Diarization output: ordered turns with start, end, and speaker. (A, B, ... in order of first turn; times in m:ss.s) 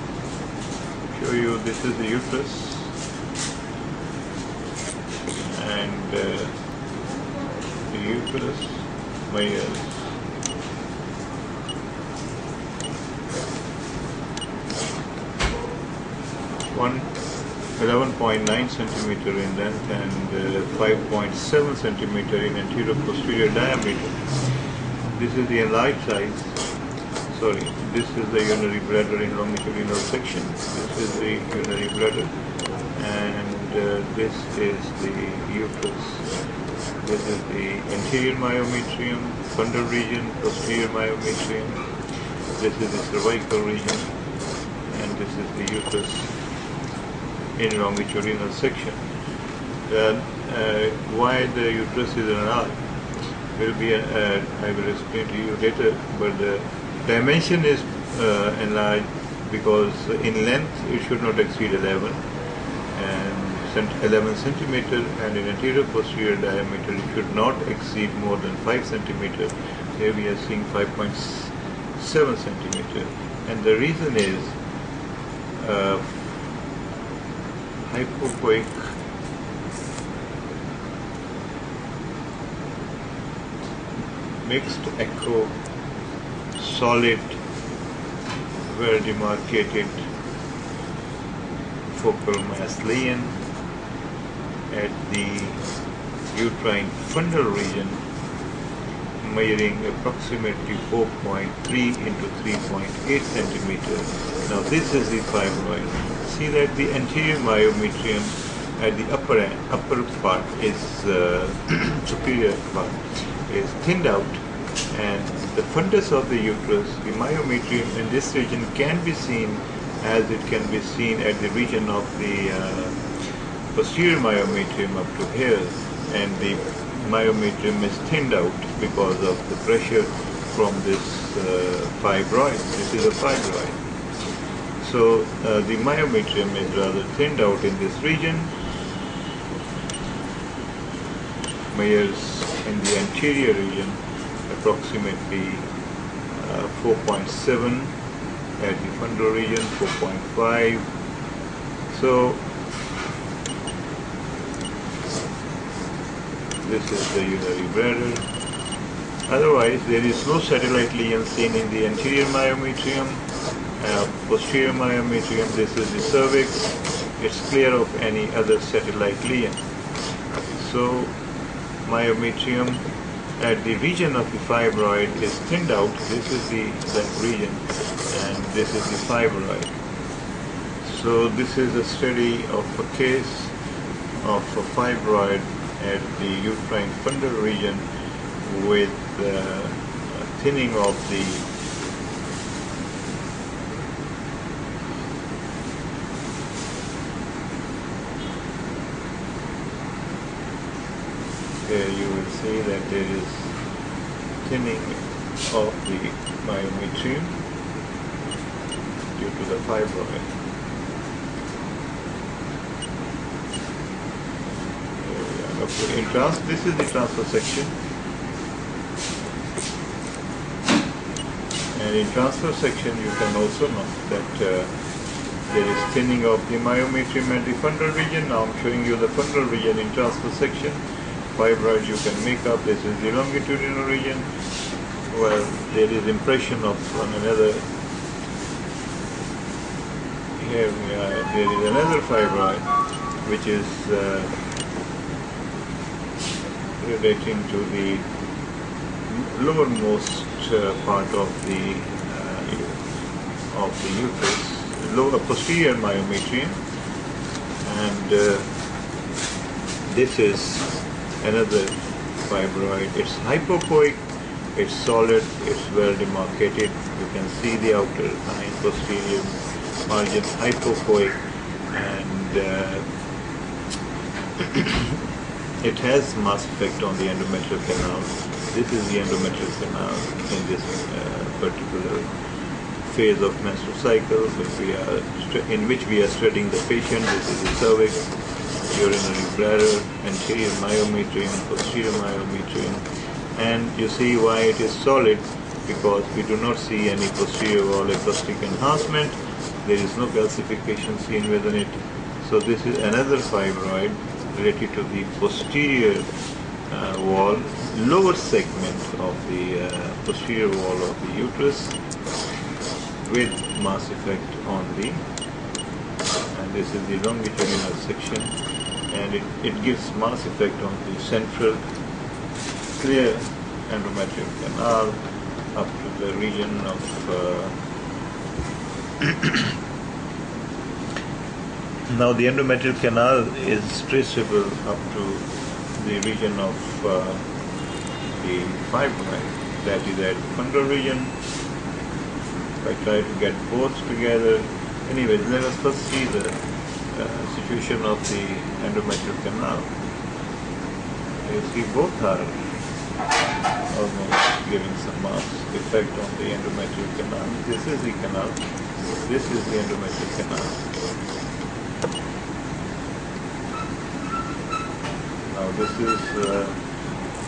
0:01.1-0:02.9 A
0:05.5-0:06.6 A
0:07.8-0:10.1 A
0:16.7-0:17.1 A
0:17.8-0:24.6 A
0:25.1-0:26.6 A
0:27.3-0:32.3 A
0:32.9-0:36.3 A
0:37.0-0:41.9 A
0:42.5-0:44.1 A
0:44.9-0:46.3 A
0:47.6-0:49.0 A
0:49.8-0:52.8 A
0:53.6-1:02.2 A
1:02.9-1:14.6 A
1:15.6-1:16.2 A
1:17.8-1:18.9 A
1:24.4-1:25.5 A
1:26.6-1:27.4 A
1:28.7-1:30.0 A
1:31.9-1:33.4 A
1:34.7-1:35.6 A
1:36.3-1:38.0 A
1:39.2-2:03.0 A
2:03.7-2:13.8 A
2:14.8-2:18.5 A
2:21.7-2:25.7 A
2:26.3-2:27.9 A
2:28.6-2:30.9 A
2:31.9-2:32.4 A
2:36.6-2:38.3 A
2:39.3-2:43.2 A
2:43.8-2:49.6 A
2:50.6-2:51.2 A
2:51.8-2:52.8 A
2:53.4-2:59.7 A
3:00.8-3:03.6 A
3:04.2-3:07.9 A
3:08.4-3:11.5 A
3:21.6-3:23.5 A
3:24.4-3:27.4 A
3:29.2-3:30.3 A
3:35.0-3:37.7 A
3:41.7-3:44.7 A
3:45.5-3:50.8 A
3:51.3-3:54.3 A
3:55.1-3:57.7 A
4:00.4-4:02.7 A
4:03.2-4:04.3 A
4:06.8-4:08.0 A
4:09.1-4:12.8 A
4:13.5-4:16.6 A
4:17.6-4:18.5 A
4:19.8-4:32.9 A
4:34.4-4:34.9 A
4:35.6-4:42.1 A
4:42.8-4:48.2 A
4:48.7-5:06.1 A
5:06.7-5:11.8 A
5:13.0-5:15.0 A
5:16.3-5:18.4 A
5:18.9-5:21.6 A
5:22.8-5:25.0 A
5:25.5-5:27.5 A
5:29.0-5:29.5 A
5:31.9-5:37.2 A
5:38.1-5:41.2 A
5:42.6-5:46.4 A
5:46.9-5:49.7 A
5:51.2-5:52.4 A
5:53.7-5:58.4 A
5:59.0-6:00.6 A
6:05.3-6:06.6 A